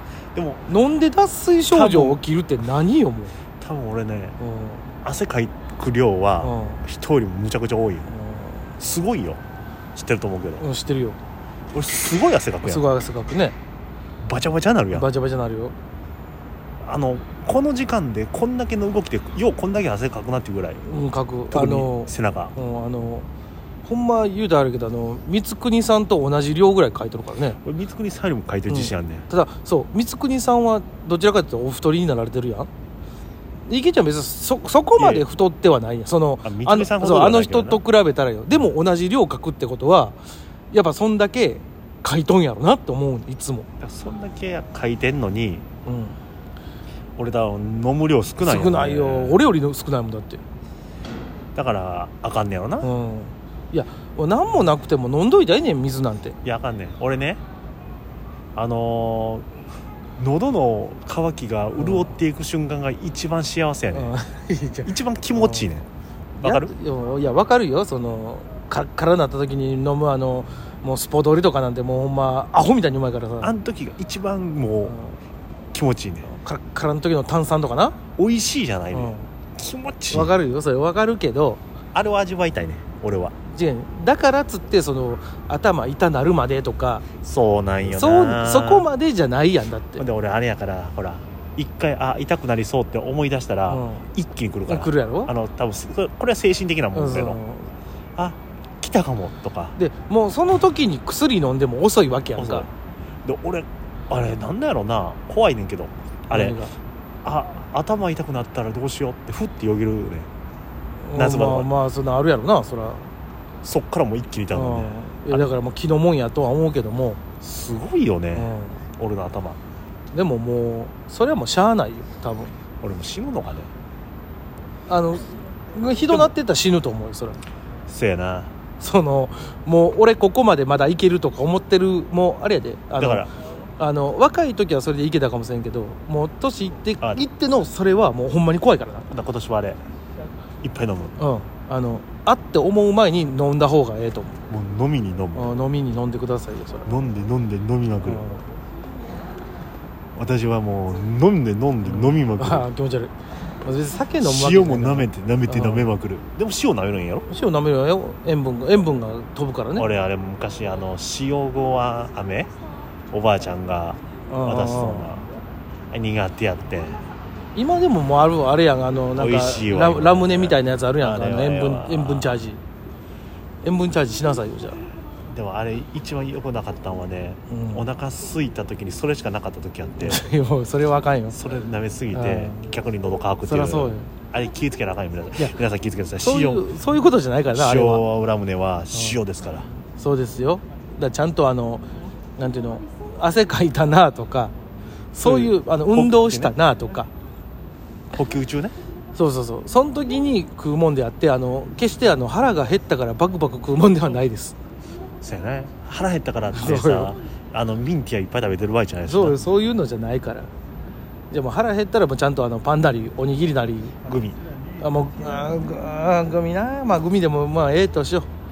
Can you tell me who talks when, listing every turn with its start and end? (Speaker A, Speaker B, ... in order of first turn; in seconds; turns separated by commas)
Speaker A: 0.3-0.6, Speaker B: 0.7-3.3, Speaker A: 1.7-2.2, Speaker A: 3.6-4.4, Speaker B: 4.4-4.9, Speaker A: 5.0-8.1, Speaker B: 6.4-6.8, Speaker B: 8.1-8.7, Speaker A: 8.8-9.4, Speaker A: 9.9-10.7, Speaker B: 10.6-11.2, Speaker A: 11.7-12.9, Speaker B: 12.6-13.6, Speaker A: 14.2-15.1, Speaker B: 14.9-15.8, Speaker A: 16.8-20.9, Speaker B: 20.9-23.3, Speaker A: 21.5-22.6, Speaker B: 23.8-27.6, Speaker A: 27.6-29.3, Speaker B: 28.7-32.7, Speaker B: 33.7-40.2, Speaker A: 35.0-35.3, Speaker A: 36.4-37.8, Speaker B: 40.7-43.7, Speaker A: 43.8-45.7, Speaker B: 45.9-46.2, Speaker A: 47.2-49.4, Speaker B: 48.4-50.4, Speaker A: 51.5-52.9, Speaker B: 52.8-56.4, Speaker A: 56.4-57.4, Speaker A: 58.5-59.5, Speaker A: 60.2-64.2, Speaker B: 61.8-62.1, Speaker B: 63.9-65.7, Speaker A: 64.8-65.9, Speaker A: 66.4-66.7, Speaker B: 66.4-73.5, Speaker A: 73.4-75.0, Speaker B: 74.8-75.2, Speaker A: 75.7-76.3, Speaker B: 76.2-78.0, Speaker A: 78.2-80.3, Speaker B: 78.9-79.3, Speaker B: 80.1-81.6, Speaker A: 81.9-83.3, Speaker B: 83.5-87.1, Speaker A: 87.2-88.9, Speaker B: 87.9-90.0, Speaker A: 90.0-97.4, Speaker B: 93.7-94.1, Speaker B: 94.7-95.3, Speaker B: 96.9-97.7, Speaker A: 98.2-99.8, Speaker B: 99.8-102.7, Speaker A: 102.3-102.7, Speaker A: 103.2-106.6, Speaker B: 106.3-106.7, Speaker A: 107.2-110.3, Speaker B: 111.0-113.1, Speaker A: 111.2-111.7, Speaker A: 113.6-115.5, Speaker B: 114.5-117.2, Speaker A: 117.4-119.6, Speaker B: 118.3-118.8, Speaker B: 120.1-122.5, Speaker A: 122.8-123.7, Speaker B: 124.9-127.4, Speaker A: 127.9-128.5, Speaker B: 128.8-139.1, Speaker A: 133.0-133.3, Speaker A: 139.1-139.8, Speaker A: 140.6-141.2, Speaker B: 141.2-144.4, Speaker A: 144.5-145.5, Speaker B: 145.3-146.9, Speaker A: 146.9-148.3, Speaker B: 148.1-148.4, Speaker A: 150.2-152.7, Speaker B: 151.8-155.9, Speaker A: 154.2-157.3, Speaker B: 157.3-159.9, Speaker A: 159.8-162.5, Speaker A: 163.1-165.3, Speaker B: 164.3-165.1, Speaker A: 165.9-167.0, Speaker B: 167.6-172.6, Speaker A: 169.2-172.4, Speaker B: 173.6-174.8, Speaker A: 175.3-180.3, Speaker B: 177.5-177.8, Speaker B: 180.0-181.4, Speaker A: 181.3-186.6, Speaker B: 182.1-182.6, Speaker B: 183.4-184.1, Speaker B: 186.2-188.0, Speaker A: 187.5-189.7, Speaker B: 190.0-191.8, Speaker B: 192.4-194.5, Speaker B: 195.1-197.1, Speaker A: 195.2-196.5, Speaker A: 198.1-198.8, Speaker B: 199.2-204.6, Speaker A: 205.2-209.4, Speaker B: 206.5-207.2, Speaker B: 209.1-210.5, Speaker B: 211.3-214.0, Speaker A: 214.1-214.4, Speaker B: 214.8-218.3